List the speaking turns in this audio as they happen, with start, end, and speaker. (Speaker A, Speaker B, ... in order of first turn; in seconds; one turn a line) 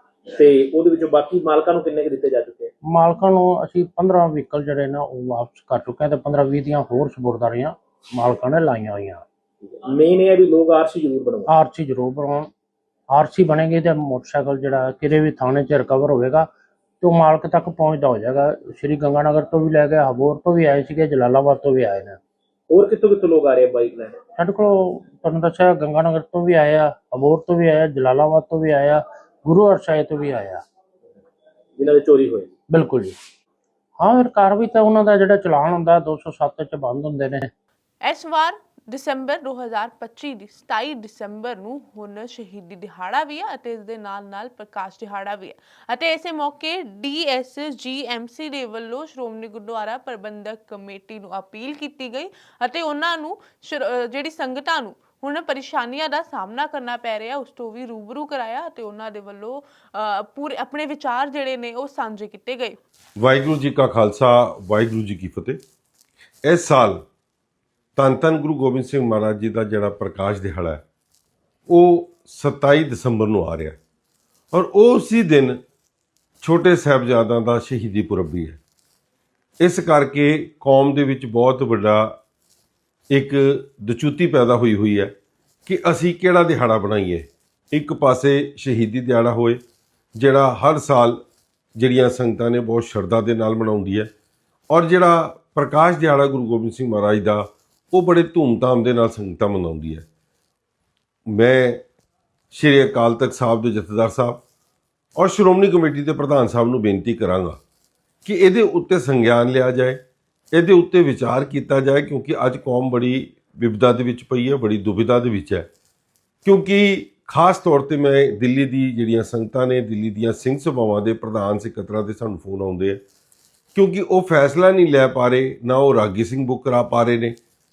Speaker A: 0.3-2.7
Speaker B: 2.8-9.2
Speaker A: 9.6-11.5
Speaker B: 11.5-12.5
Speaker B: 13.1-16.5
Speaker B: 17.0-22.2
Speaker A: 22.7-24.2
Speaker B: 24.4-30.6
Speaker A: 31.8-32.5
Speaker B: 32.7-33.1
Speaker B: 34.0-37.5
Speaker C: 38.0-62.8
Speaker D: 63.2-65.6
Speaker D: 66.5-67.0
Speaker D: 68.0-70.8
Speaker D: 71.7-73.8
Speaker D: 74.5-75.6
Speaker D: 76.4-78.6
Speaker D: 79.6-82.2
Speaker D: 83.1-85.1
Speaker D: 85.7-89.6
Speaker D: 90.2-91.2
Speaker D: 91.8-94.1
Speaker D: 94.7-100.0
Speaker D: 101.3-101.8
Speaker D: 102.5-104.4
Speaker D: 105.2-107.6
Speaker D: 108.2-110.0
Speaker D: 110.5-115.7
Speaker D: 116.5-123.0
Speaker D: 123.8-127.4